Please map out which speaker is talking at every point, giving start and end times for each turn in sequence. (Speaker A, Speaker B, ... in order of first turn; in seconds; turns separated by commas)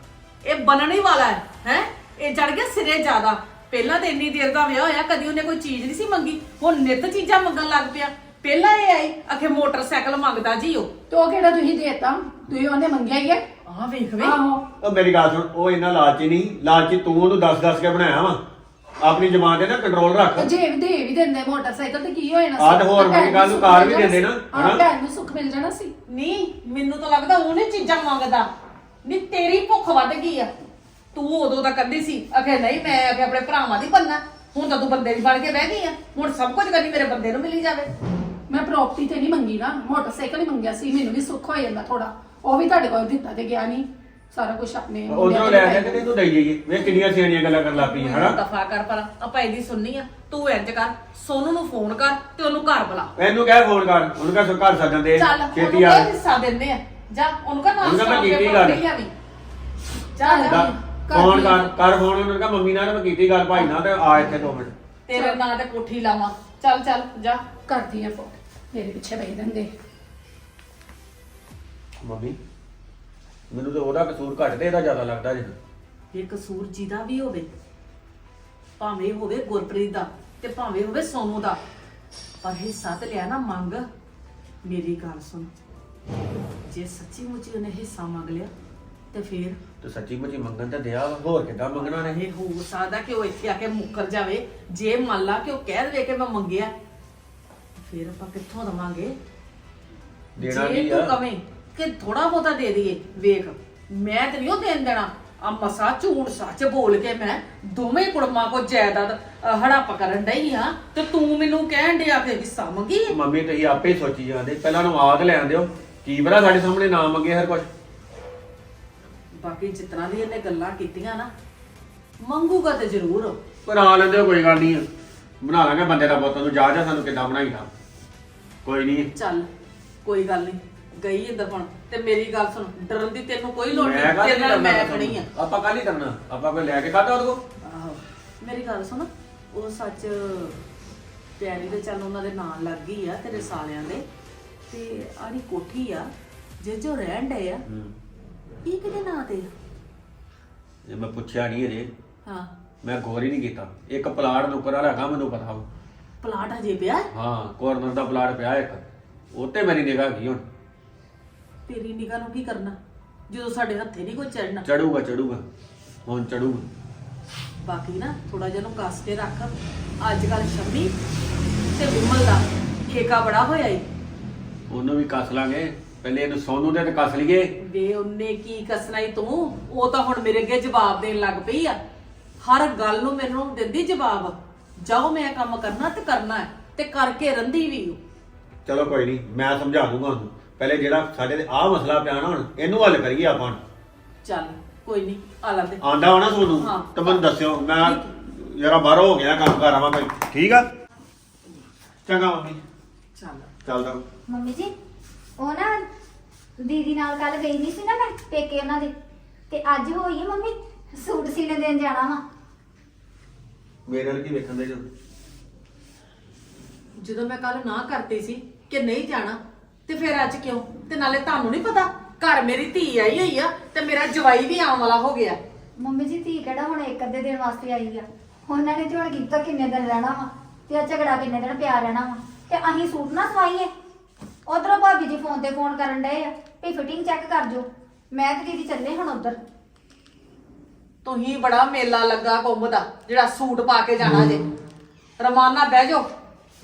Speaker A: 0.4-10.9, Speaker B: 11.1-13.4, Speaker A: 13.7-14.4, Speaker B: 14.2-14.6, Speaker C: 14.8-18.4, Speaker C: 19.0-20.5, Speaker B: 20.4-25.9, Speaker C: 22.6-24.8, Speaker A: 26.1-28.5, Speaker A: 29.0-30.5, Speaker A: 31.1-37.9, Speaker B: 38.5-46.0, Speaker C: 45.1-48.4, Speaker A: 47.7-53.1, Speaker C: 53.1-56.1, Speaker A: 55.1-59.1, Speaker C: 57.8-58.8, Speaker A: 60.1-60.7, Speaker B: 60.2-61.7, Speaker C: 60.4-64.7, Speaker A: 65.1-67.4, Speaker B: 65.1-65.4, Speaker B: 67.7-69.7, Speaker C: 72.0-72.4, Speaker C: 73.5-75.5, Speaker A: 76.1-77.5, Speaker A: 78.8-81.6, Speaker A: 82.4-83.9, Speaker A: 84.6-85.5, Speaker A: 86.7-88.5, Speaker A: 89.1-89.6, Speaker C: 89.8-92.2, Speaker A: 91.8-96.7, Speaker A: 97.8-99.2, Speaker C: 100.4-101.2, Speaker A: 100.4-113.1, Speaker C: 113.1-117.7, Speaker A: 119.4-121.3, Speaker A: 122.2-123.4, Speaker C: 123.7-124.8, Speaker C: 125.4-127.7, Speaker C: 128.6-129.1, Speaker A: 129.1-129.5, Speaker A: 130.0-135.3, Speaker C: 133.7-137.4, Speaker A: 137.6-140.6, Speaker A: 141.4-144.0, Speaker A: 144.7-146.1, Speaker A: 146.6-147.6, Speaker C: 147.7-147.9, Speaker A: 148.6-149.5, Speaker C: 150.8-151.9, Speaker A: 152.2-152.5, Speaker C: 152.8-155.7, Speaker A: 156.2-157.1, Speaker C: 157.1-160.4, Speaker A: 161.7-162.8, Speaker A: 163.3-164.7, Speaker C: 164.6-165.4, Speaker C: 166.1-166.7, Speaker A: 167.6-170.9, Speaker A: 171.7-173.8, Speaker C: 174.7-177.5, Speaker A: 177.6-181.8, Speaker A: 182.4-188.0, Speaker C: 188.7-193.6, Speaker A: 194.2-195.8, Speaker C: 195.8-200.7, Speaker A: 196.5-197.2, Speaker A: 197.8-198.0, Speaker C: 202.1-202.6, Speaker A: 203.2-203.5, Speaker C: 203.6-204.0, Speaker D: 204.3-204.7, Speaker D: 205.4-205.8, Speaker D: 206.6-208.9, Speaker D: 209.5-212.2, Speaker C: 213.8-214.9, Speaker A: 217.0-225.4, Speaker D: 225.8-233.7, Speaker D: 234.4-239.4, Speaker A: 241.0-244.5, Speaker A: 245.2-246.1